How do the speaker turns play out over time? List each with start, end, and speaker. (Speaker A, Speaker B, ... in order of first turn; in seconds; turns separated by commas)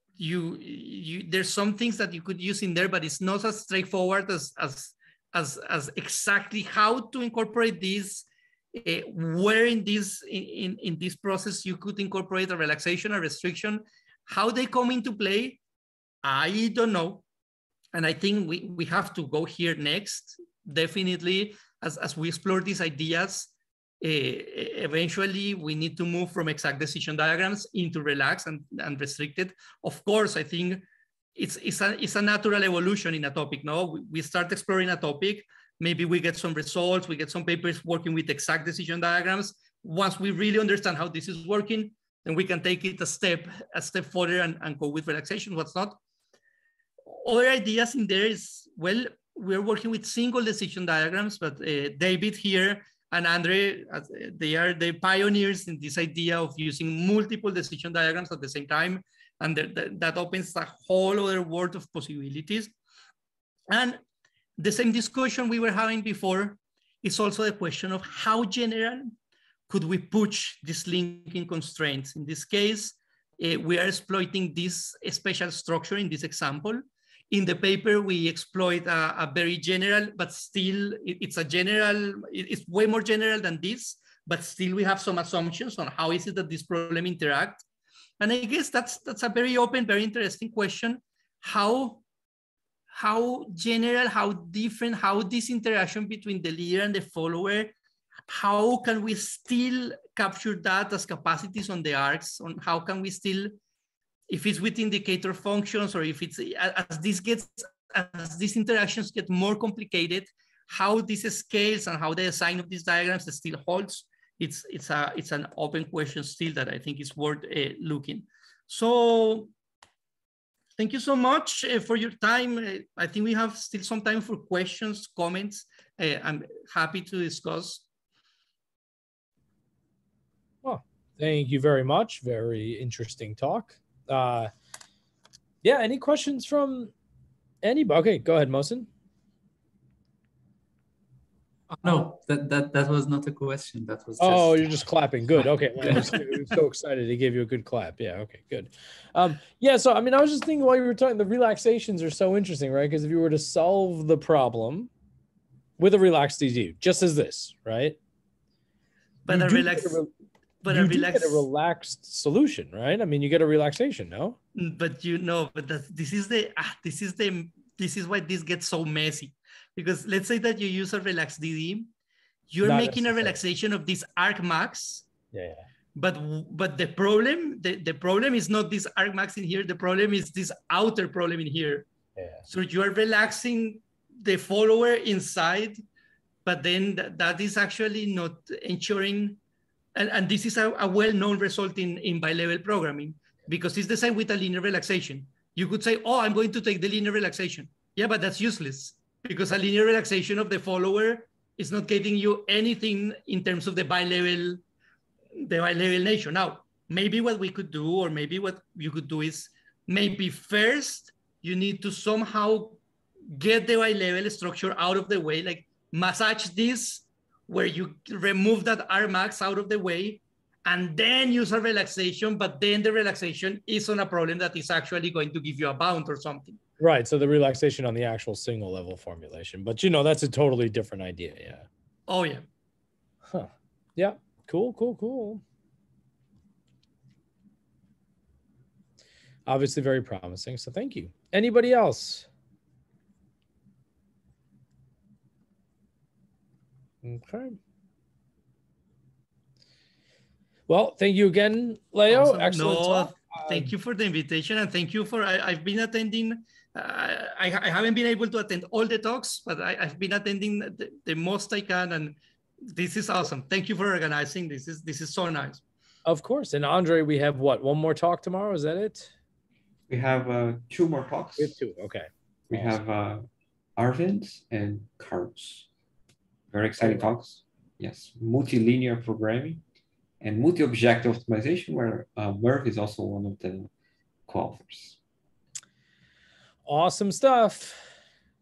Speaker A: 0.2-15.6, Speaker A: 16.2-17.2, Speaker A: 17.9-30.8, Speaker A: 31.4-46.0, Speaker A: 47.1-62.7, Speaker A: 63.7-64.0, Speaker A: 64.6-69.2, Speaker A: 69.7-87.6, Speaker A: 88.2-92.0, Speaker A: 92.9-97.7, Speaker A: 98.3-103.5, Speaker A: 104.3-119.5, Speaker A: 120.8-127.8, Speaker B: 130.6-134.5, Speaker B: 135.6-136.9, Speaker B: 137.6-138.9, Speaker C: 141.8-144.8, Speaker B: 144.2-154.9, Speaker C: 145.8-146.5, Speaker B: 155.8-158.0, Speaker A: 159.2-160.0, Speaker B: 159.3-160.1, Speaker A: 160.6-161.5, Speaker B: 160.7-164.4, Speaker A: 164.5-171.9, Speaker A: 172.5-175.1, Speaker B: 172.6-173.4, Speaker B: 175.3-175.7, Speaker A: 175.9-181.9, Speaker B: 182.2-182.4, Speaker A: 182.4-185.8, Speaker A: 186.4-189.4, Speaker A: 189.9-204.6, Speaker A: 205.3-212.8, Speaker A: 213.3-226.6, Speaker B: 226.8-231.7, Speaker A: 232.1-232.4, Speaker B: 233.3-235.4, Speaker B: 239.4-242.3, Speaker B: 247.0-247.6, Speaker B: 250.7-253.7, Speaker A: 252.1-262.2, Speaker A: 262.7-265.6, Speaker B: 266.1-269.1, Speaker D: 269.9-271.6, Speaker B: 271.4-272.8, Speaker D: 272.5-275.7, Speaker D: 276.5-279.6, Speaker B: 276.8-277.1, Speaker D: 280.2-283.7, Speaker D: 284.3-285.0, Speaker B: 286.6-287.9